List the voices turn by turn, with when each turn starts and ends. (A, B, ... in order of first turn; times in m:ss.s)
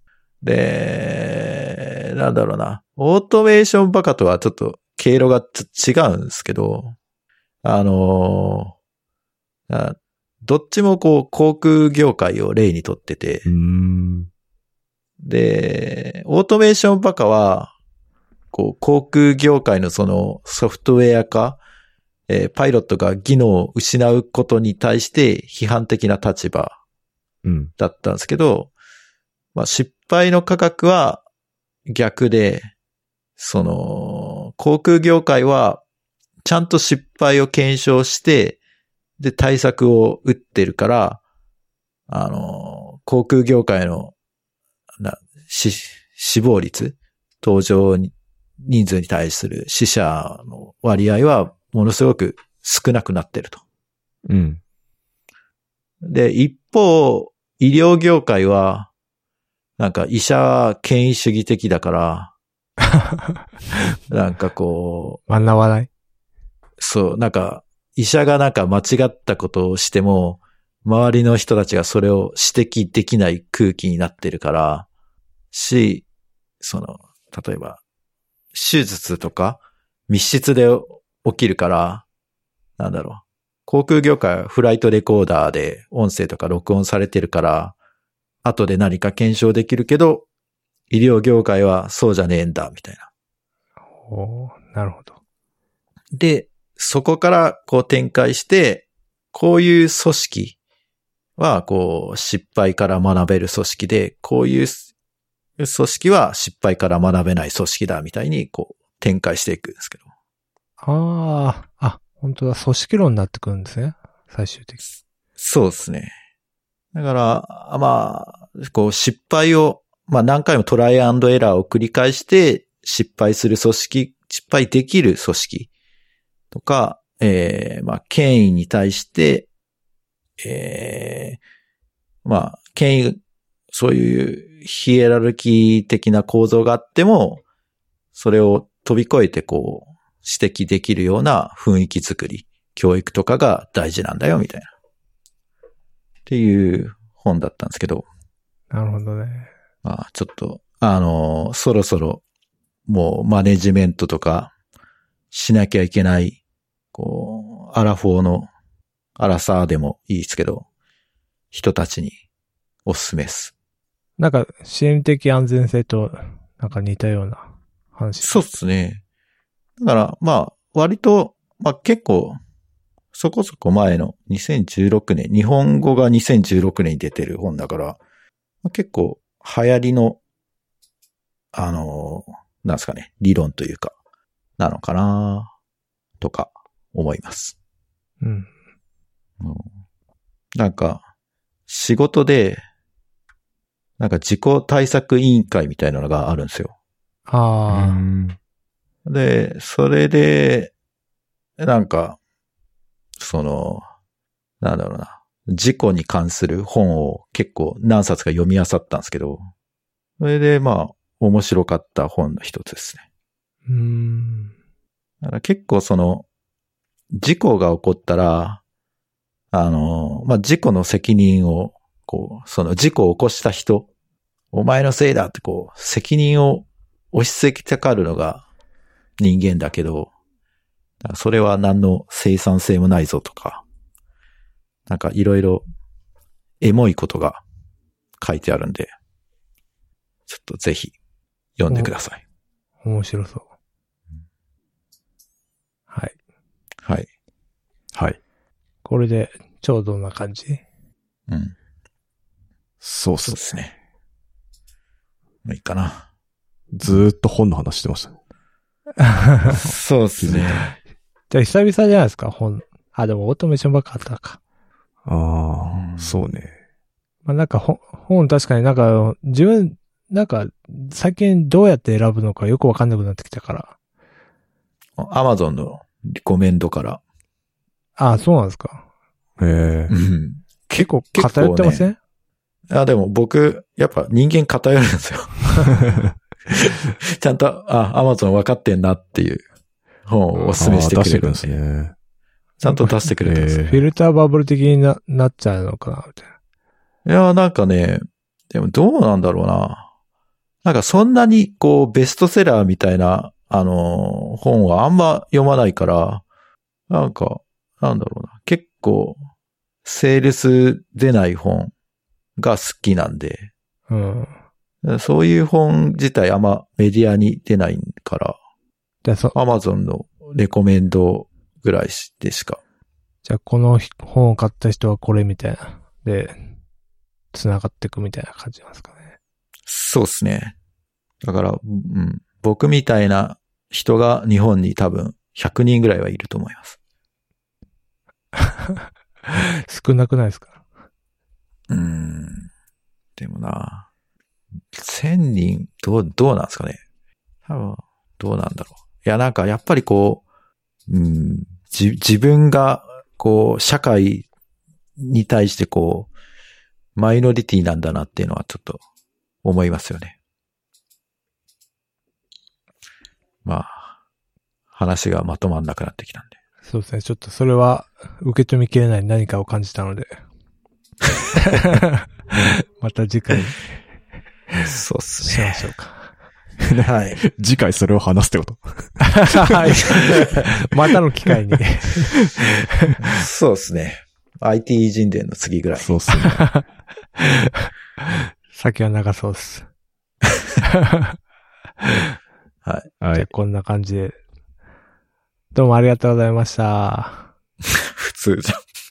0:00.4-0:07.0 A
0:07.6-0:08.7 A
0:09.7-0:13.5 A
0:13.4-0:14.3 B
0:15.2-0:17.7 A
0:18.5-0:21.6 A
0:22.3-0:26.8 A
0:27.4-0:27.7 B
0:27.8-0:28.7 A
0:29.5-0:31.2 A
0:31.9-0:32.7 A
0:33.4-0:35.8 A
0:36.4-0:38.6 A
0:39.2-0:41.2 A
0:42.1-0:44.1 A
0:45.0-0:53.6 A
0:54.2-0:54.6 B
0:56.0-0:58.9 A
0:59.8-1:02.3 A
1:04.1-1:05.2 A
1:05.3-1:05.9 C
1:06.8-1:14.9 A
1:15.5-1:16.0 A
1:16.6-1:17.8 A
1:18.5-1:22.0 A
1:22.8-1:27.8 A
1:28.4-1:30.3 A
1:30.9-1:33.1 A
1:34.0-1:35.1 C
1:36.2-1:40.6 A
1:41.4-1:44.8 A
1:45.6-1:50.0 A
1:50.8-1:54.8 C
1:55.4-1:56.1 A
1:56.9-2:05.7 A
2:06.5-2:09.5 A
2:10.4-2:11.4 A
2:12.2-2:13.2 A
2:13.7-2:17.4 A
2:18.1-2:24.7 A
2:26.3-2:28.0 A
2:28.7-2:29.5 C
2:29.8-2:32.2 A
2:32.9-2:34.5 A
2:35.3-2:36.4 A
2:36.9-2:38.5 A
2:39.2-2:40.7 A
2:41.5-2:42.2 A
2:42.8-2:43.5 A
2:44.2-2:48.5 C
2:48.2-2:49.0 A
2:49.8-2:52.4 A
2:53.1-2:58.0 A
2:58.6-3:00.2 A
3:01.5-3:03.9 A
3:04.6-3:05.5 A
3:06.2-3:07.6 A
3:08.2-3:08.5 C
3:09.4-3:09.6 A
3:10.6-3:11.0 A
3:11.7-3:12.6 A
3:14.0-3:16.7 A
3:17.3-3:18.0 C
3:17.7-3:18.4 B
3:19.0-3:20.7 A
3:21.6-3:22.2 A
3:23.2-3:23.8 A
3:24.6-3:29.4 A
3:30.2-3:33.0 A
3:33.7-3:34.5 C
3:35.2-3:36.2 A
3:37.1-3:38.6 A
3:39.5-3:43.9 A
3:44.5-3:48.4 A
3:49.2-3:50.1 A
3:51.0-3:53.6 A
3:54.9-3:55.6 A
3:56.6-3:57.4 A
3:58.2-3:58.9 A
4:00.3-4:00.9 A
4:01.6-4:02.2 A
4:02.8-4:03.4 C
4:08.8-4:10.6 C
4:11.3-4:11.6 A
4:12.8-4:13.4 B
4:13.2-4:13.7 A
4:15.4-4:16.0 A
4:16.7-4:18.2 B
4:19.0-4:19.7 C
4:19.6-4:20.7 A
4:20.2-4:20.7 B
4:21.3-4:24.4 C
4:25.0-4:26.5 B
4:25.7-4:26.2 A
4:27.2-4:33.7 C
4:35.0-4:37.0 A
4:38.0-4:38.8 C
4:39.4-4:39.9 B
4:39.9-4:41.9 A
4:40.7-4:42.0 C
4:42.7-4:45.8 A
4:46.5-4:49.4 A
4:50.0-4:51.6 A
4:50.4-4:51.9 B
4:52.6-4:53.1 C
4:52.6-4:53.6 A
4:53.2-4:53.8 B
4:53.6-4:56.3 C
4:57.0-4:59.9 A
5:00.6-5:06.2 A
5:06.9-5:09.2 A
5:09.8-5:11.7 A
5:12.4-5:13.5 A
5:13.9-5:14.3 C
5:14.8-5:18.4 A
5:19.0-5:19.4 C
5:19.3-5:22.6 A
5:23.2-5:26.4 C
5:27.3-5:29.1 C
5:29.7-5:30.5 A
5:31.2-5:36.8 A
5:39.3-5:40.6 C
5:41.7-5:42.5 A
5:43.2-5:43.9 A
5:44.7-5:46.8 A
5:47.4-5:50.2 A
5:50.9-5:54.3 A
5:55.0-5:56.1 A
5:57.0-5:58.8 A
5:59.4-6:00.2 A
6:03.4-6:03.9 A
6:04.7-6:06.3 A
6:06.6-6:10.1 C
6:11.4-6:12.0 C
6:12.8-6:13.6 C
6:14.6-6:15.6 A
6:15.2-6:16.1 C
6:16.6-6:20.3 B
6:16.8-6:17.2 A
6:19.1-6:22.2 C
6:23.0-6:26.0 A
6:25.8-6:26.5 B
6:26.2-6:26.6 C
6:27.2-6:27.7 C
6:28.5-6:29.7 C
6:30.7-6:31.2 C
6:33.0-6:33.3 B
6:33.1-6:34.2 C
6:35.5-6:37.3 C
6:37.6-6:38.6 A